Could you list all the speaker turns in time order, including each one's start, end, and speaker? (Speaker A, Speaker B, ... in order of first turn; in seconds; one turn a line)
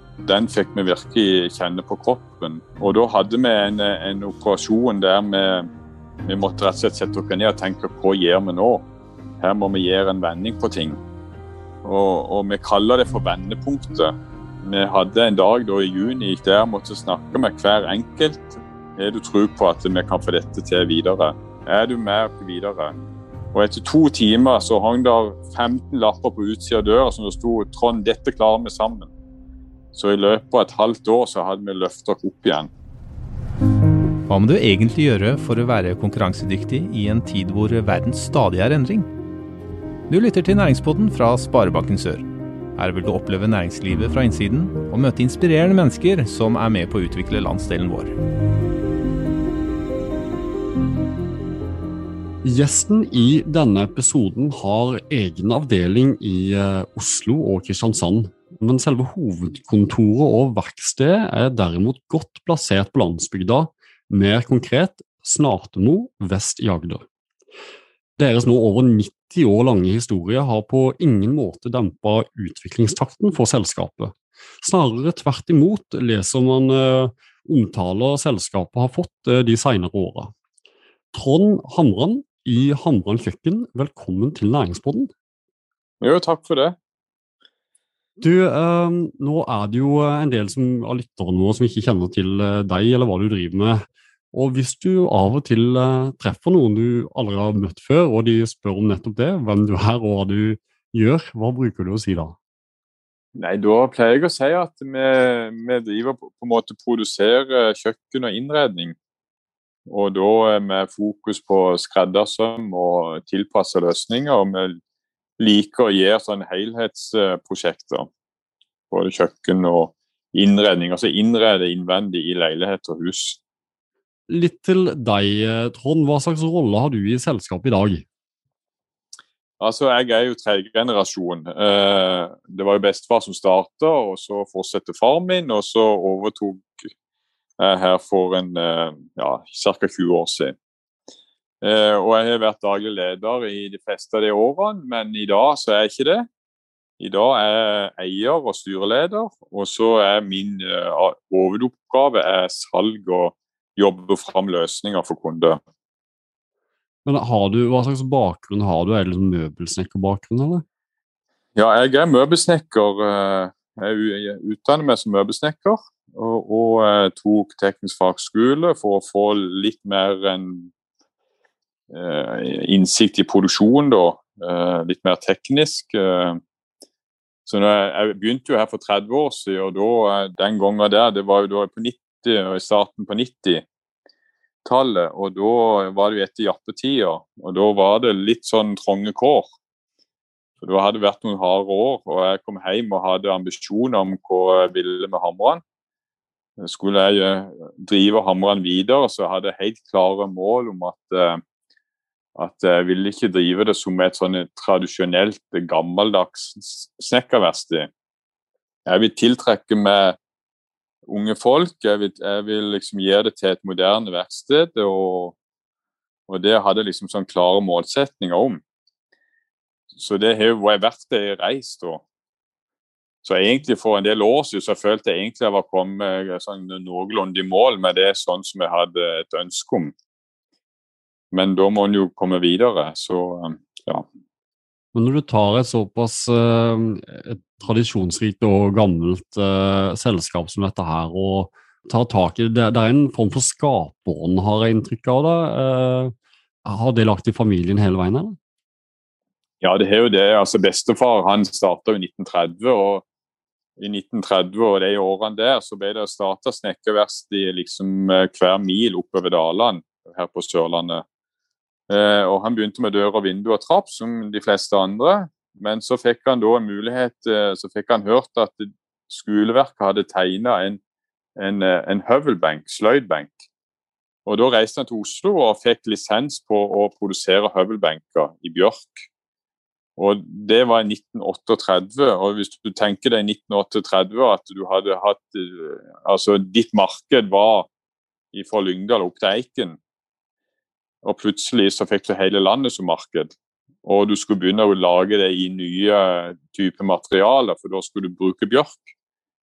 Speaker A: 0.2-5.7
Speaker A: 6.2-8.9
Speaker A: 9.4-11.0
Speaker A: 11.8-22.9
Speaker A: 23.5-29.1
Speaker A: 29.9-32.7
Speaker B: 34.3-39.1
Speaker B: 40.1-42.2
Speaker B: 42.8-48.1
Speaker C: 52.4-67.0
Speaker C: 68.2-80.3
Speaker C: 81.1-85.1
Speaker A: 86.0-86.8
Speaker C: 88.2-102.4
Speaker A: 103.3-109.0
Speaker A: 109.9-114.8
Speaker A: 115.4-118.1
Speaker A: 118.9-123.4
Speaker C: 124.3-128.1
Speaker A: 129.6-136.9
Speaker A: 137.6-140.6
Speaker A: 141.6-146.3
Speaker A: 147.0-155.6
Speaker C: 157.1-160.6
Speaker A: 161.6-170.7
Speaker A: 171.9-176.4
Speaker A: 177.5-183.7
Speaker A: 184.7-189.5
Speaker A: 190.6-195.6
Speaker A: 196.6-201.4
Speaker A: 202.4-207.9
Speaker A: 208.9-210.2
Speaker A: 211.1-215.4
Speaker A: 216.3-218.6
Speaker A: 219.9-222.0
Speaker A: 223.2-229.9
Speaker A: 231.3-234.1
Speaker C: 234.9-246.1
Speaker C: 246.6-248.4
Speaker A: 249.6-253.1
Speaker A: 253.8-261.0
Speaker A: 261.9-270.8
Speaker A: 271.4-273.4
Speaker A: 274.3-279.1
Speaker A: 280.0-287.7
Speaker A: 288.3-289.8
Speaker A: 291.0-298.9